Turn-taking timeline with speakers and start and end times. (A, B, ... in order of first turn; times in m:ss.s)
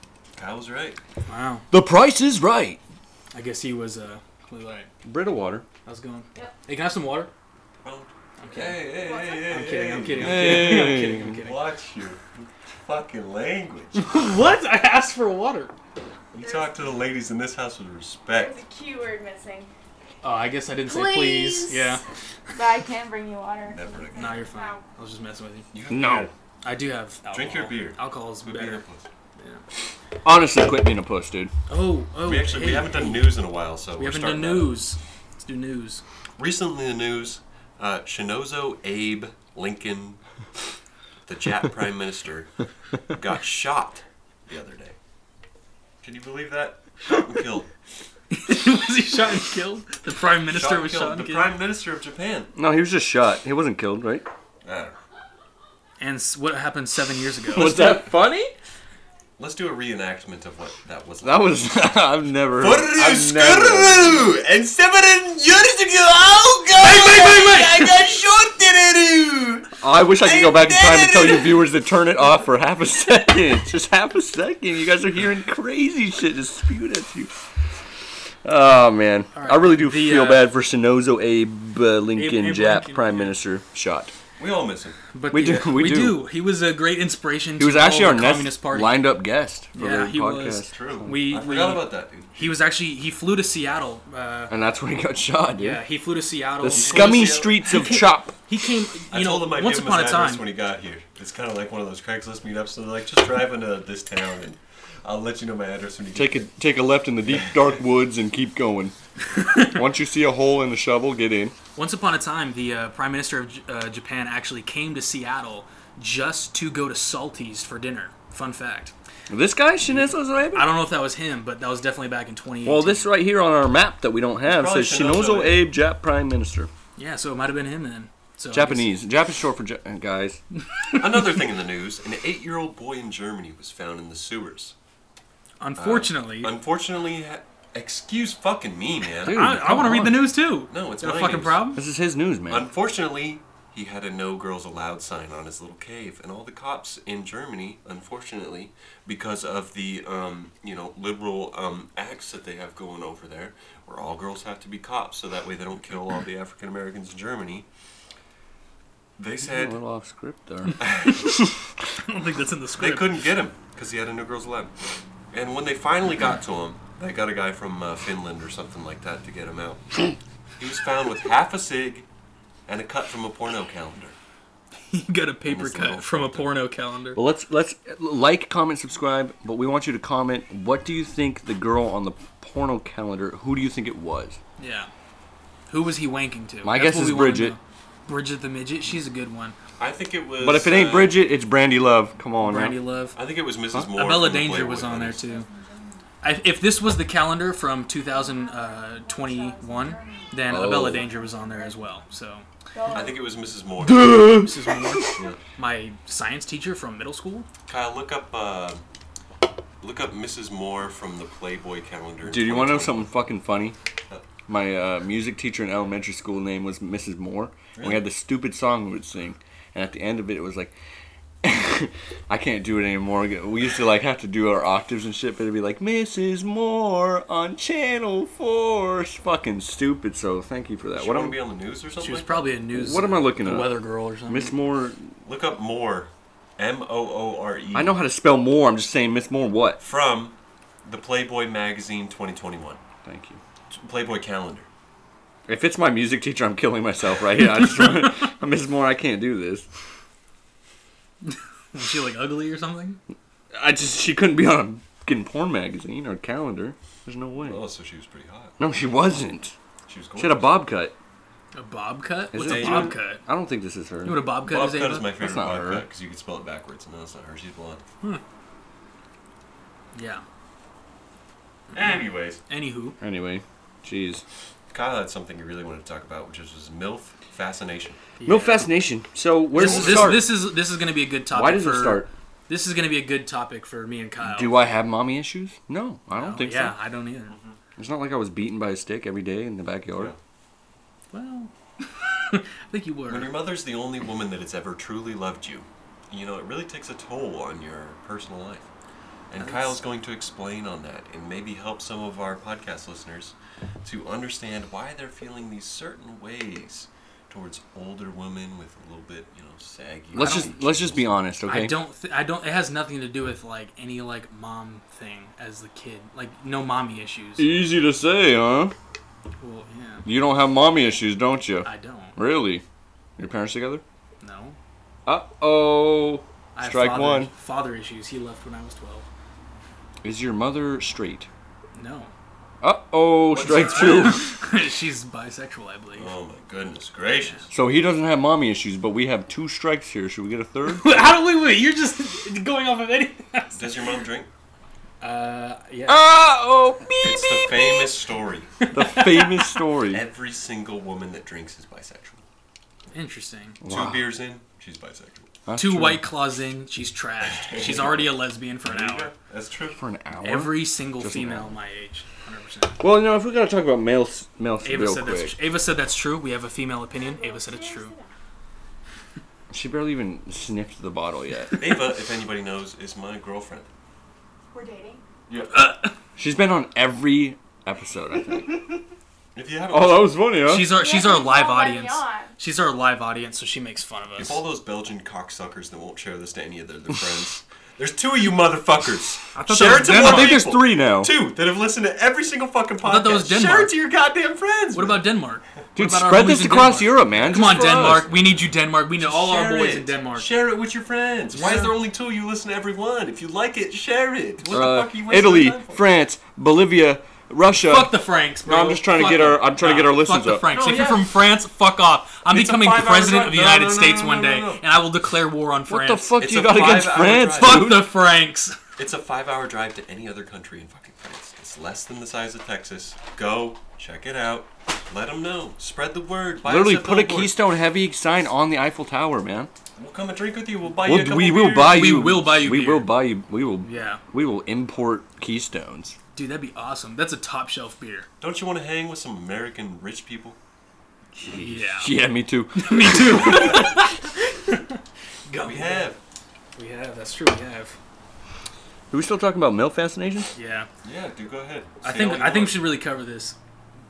0:00.4-0:01.0 A
0:01.2-0:01.6 B
0:01.7-0:02.8 C
0:03.3-0:04.9 B
0:05.0-0:05.6 C
0:05.8-0:07.3 B
0:07.8-0:14.2 A
0:08.4-0:08.9 B
0:08.9-0:09.8 D
0:09.4-0:11.6 B
0:10.2-0:11.4 C
0:14.0-0:15.7 B
0:16.3-0:18.6 A
0:16.3-0:16.9 D
0:18.3-0:19.7 D
0:20.2-0:22.0 B
0:20.9-0:22.0 D
0:22.5-0:24.8 D
0:23.7-0:24.5 A
0:24.1-0:25.7 B
0:25.7-0:26.3 A
0:25.9-0:26.3 C
0:26.6-0:28.8 B
0:27.3-0:29.0 A
0:30.2-0:31.5 C
0:31.7-0:33.4 B
0:32.2-0:34.8 A
0:34.0-0:36.0 B
0:36.4-0:40.2 A
0:41.3-0:42.5 A
0:43.1-0:45.0 A
0:46.0-0:47.7 A
0:48.3-0:51.5 B
0:50.5-0:52.5 A
0:52.6-0:54.3 C
0:54.6-0:55.0 A
0:56.0-0:58.0 B
0:57.5-0:58.5 C
0:59.4-1:01.5 A
1:01.2-1:04.3 C
1:02.6-1:11.6 A
1:06.8-1:07.9 B
1:09.8-1:17.3 C
1:18.4-1:24.1 C
1:19.3-1:20.5 B
1:22.1-1:23.4 B
1:24.4-1:25.0 A
1:25.1-1:29.0 B
1:25.3-1:26.2 C
1:27.6-1:31.1 C
1:29.7-1:34.5 B
1:30.7-1:32.5 A
1:34.5-1:35.8 C
1:35.6-1:40.4 B
1:36.6-1:38.3 C
1:36.6-1:37.6 A
1:39.1-1:46.5 A
1:46.1-1:48.9 C
1:49.4-1:49.7 B
1:49.5-1:51.5 C
1:51.8-1:58.9 B
1:59.3-2:00.7 C
2:00.5-2:03.1 B
2:02.6-2:06.7 C
2:04.4-2:05.7 A
2:07.0-2:08.9 B
2:08.5-2:10.4 C
2:10.9-2:14.7 A
2:15.6-2:16.5 B
2:15.8-2:19.4 A
2:19.2-2:20.2 C
2:19.3-2:21.8 B
2:20.7-2:21.6 A
2:21.8-2:22.7 C
2:22.5-2:37.6 A
2:39.2-2:39.8 A
2:39.5-2:40.8 C
2:40.8-2:41.4 A
2:42.0-2:43.1 B
2:42.8-2:44.7 A
2:45.3-2:50.0 A
2:50.6-2:52.1 A
2:52.7-2:54.2 A
2:54.9-2:57.2 B
2:55.4-2:56.6 A
2:57.1-3:04.4 C
3:04.6-3:04.9 B
3:05.7-3:09.6 B
3:06.6-3:07.6 C
3:09.8-3:11.2 A
3:10.4-3:12.8 C
3:12.4-3:13.2 B
3:13.1-3:15.3 A
3:13.9-3:15.5 B
3:15.2-3:16.0 D
3:16.2-3:22.4 B
3:18.0-3:22.0 D
3:20.4-3:21.0 C
3:22.7-3:23.4 D
3:22.9-3:24.2 A
3:23.8-3:25.2 C
3:24.1-3:27.5 B
3:27.7-3:28.8 A
3:29.8-3:33.1 A
3:32.2-3:33.8 C
3:34.5-3:40.7 C
3:37.7-3:38.0 A
3:41.4-3:51.4 C
3:50.9-3:52.6 A
3:52.0-3:54.6 B
3:52.7-3:55.0 C
3:55.2-3:58.0 A
3:57.7-3:59.8 C
3:59.8-4:02.8 A
4:03.0-4:03.4 C
4:03.7-4:04.7 A
4:05.5-4:09.6 C
4:11.2-4:13.0 B
4:13.5-4:17.6 C
4:17.4-4:18.6 A
4:18.6-4:19.5 C
4:19.9-4:20.6 A
4:20.2-4:20.9 C
4:21.5-4:23.2 B
4:22.3-4:24.3 C
4:22.3-4:23.0 A
4:24.0-4:25.1 B
4:24.4-4:27.8 A
4:25.2-4:25.8 C
4:29.9-4:30.2 B
4:31.7-4:32.4 A
4:32.5-4:33.0 B
4:33.0-4:34.2 C
4:34.7-4:38.0 A
4:38.2-4:38.6 B
4:38.2-4:40.4 C
4:39.5-4:44.5 B
4:39.6-4:40.3 A
4:41.3-4:42.1 C
4:44.2-4:46.8 C
4:46.1-4:47.4 B
4:47.8-4:50.1 C
4:51.1-4:53.3 B
4:53.1-4:58.7 A
4:59.3-5:11.1 A
4:59.4-4:59.8 B
5:10.1-5:11.8 C
5:10.2-5:10.5 B
5:11.4-5:17.5 B
5:17.4-5:18.7 C
5:19.4-5:20.0 B
5:20.0-5:22.6 C
5:21.6-5:22.2 B
5:23.2-5:23.8 C
5:24.2-5:24.6 B
5:25.0-5:27.3 C
5:26.5-5:29.1 B
5:30.0-5:31.3 C
5:31.7-5:32.1 B
5:32.6-5:34.3 C
5:33.3-5:34.2 A
5:33.4-5:36.1 B
5:36.0-5:37.5 A
5:37.2-5:37.4 B
5:37.5-5:41.2 C
5:40.7-5:43.6 B
5:43.5-5:44.3 A
5:45.0-5:46.1 B
5:45.9-5:47.7 C
5:47.0-5:48.5 A
5:48.6-5:49.5 B
5:48.7-5:50.0 C
5:49.9-5:52.2 A
5:52.9-5:53.6 B
5:53.6-5:54.1 C
5:53.6-5:55.2 A
5:55.4-5:56.0 C
5:55.6-5:59.1 B
5:57.3-5:59.8 A
5:59.7-6:01.5 C
6:00.2-6:02.8 B
6:02.8-6:05.4 C
6:04.6-6:07.9 B
6:06.9-6:08.1 D
6:09.5-6:11.8 C
6:11.5-6:13.7 A
6:14.5-6:15.0 D
6:15.5-6:15.9 B
6:16.2-6:18.8 C
6:19.3-6:20.2 A
6:19.7-6:20.7 C
6:20.4-6:24.4 B
6:20.6-6:22.3 D
6:24.2-6:35.1 A
6:29.3-6:30.4 B
6:29.5-6:31.1 C
6:32.8-6:33.8 B
6:34.7-6:40.3 B
6:35.8-6:38.0 C
6:37.0-6:45.8 A
6:41.3-6:41.7 B
6:44.5-6:50.4 C
6:47.6-6:56.2 B
6:50.5-6:51.1 A
6:52.3-6:54.6 A
6:55.7-6:57.9 C
6:56.2-6:57.8 A
6:57.3-6:58.6 B
6:58.8-7:07.4 A
7:06.4-7:09.5 C
7:09.8-7:12.2 A
7:10.8-7:16.0 C
7:11.6-7:12.9 B
7:13.6-7:14.0 B
7:16.1-7:18.1 B
7:18.2-7:20.4 A
7:21.2-7:23.7 C
7:21.3-7:22.0 B
7:22.5-7:25.9 B
7:25.4-7:26.0 A
7:26.6-7:27.8 B
7:28.9-7:30.3 C
7:30.3-7:30.7 B
7:30.8-7:32.7 A
7:31.8-7:33.4 B